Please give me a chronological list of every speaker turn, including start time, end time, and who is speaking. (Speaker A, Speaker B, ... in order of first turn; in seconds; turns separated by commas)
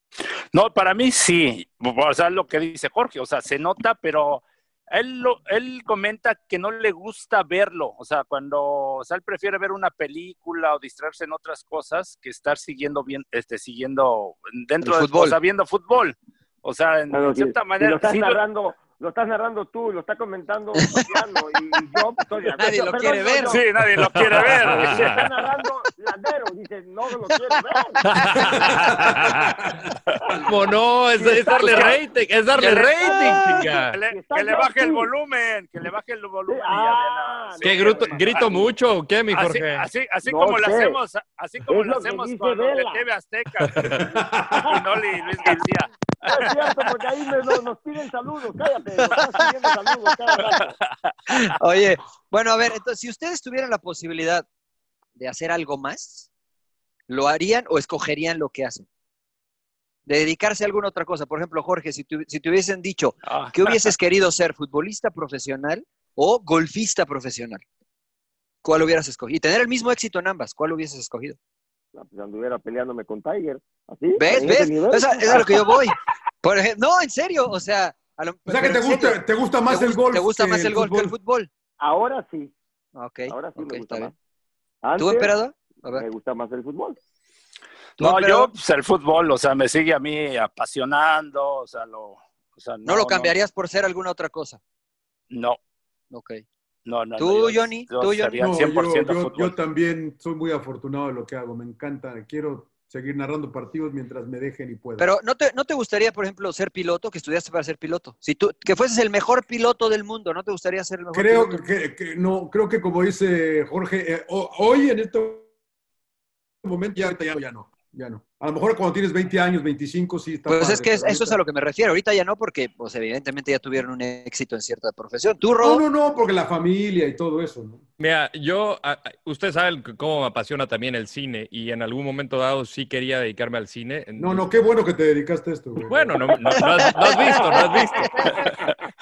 Speaker A: 0.5-18.4, Speaker B: 14.8-15.4, Speaker C: 17.1-23.7, Speaker B: 22.6-23.6, Speaker A: 23.5-25.2, Speaker D: 24.0-25.3, Speaker C: 24.7-28.0, Speaker D: 28.0-29.6, Speaker E: 28.8-29.7, Speaker D: 30.4-34.0, Speaker C: 31.2-32.0, Speaker A: 31.6-32.0, Speaker A: 32.5-38.5, Speaker C: 32.7-35.1, Speaker C: 36.5-38.7, Speaker D: 37.6-39.9, Speaker A: 39.3-43.8, Speaker C: 40.2-41.0, Speaker C: 41.7-43.0, Speaker D: 43.7-44.1, Speaker E: 44.0-44.8, Speaker A: 44.7-46.5, Speaker C: 46.3-50.8, Speaker A: 50.6-51.1, Speaker B: 51.3-54.5, Speaker B: 55.2-56.3, Speaker B: 57.1-58.9, Speaker B: 60.1-67.6, Speaker A: 63.2-63.9, Speaker B: 68.6-71.4, Speaker C: 71.9-75.7, Speaker B: 74.2-81.5, Speaker E: 78.5-81.2, Speaker C: 81.8-82.5, Speaker B: 83.0-84.1, Speaker C: 83.3-84.1, Speaker C: 84.8-85.3, Speaker B: 85.0-86.1, Speaker C: 85.9-87.0, Speaker B: 88.0-88.5, Speaker A: 88.0-93.3, Speaker B: 92.8-94.6, Speaker A: 95.3-95.6, Speaker B: 96.1-96.4, Speaker A: 96.9-99.5, Speaker B: 97.2-98.5, Speaker E: 98.4-105.1, Speaker B: 105.0-111.7, Speaker E: 111.1-115.5, Speaker E: 116.6-121.4, Speaker B: 120.5-125.8, Speaker E: 125.6-127.8, Speaker D: 128.0-134.5, Speaker E: 134.2-136.7, Speaker D: 135.9-138.4, Speaker B: 136.6-138.3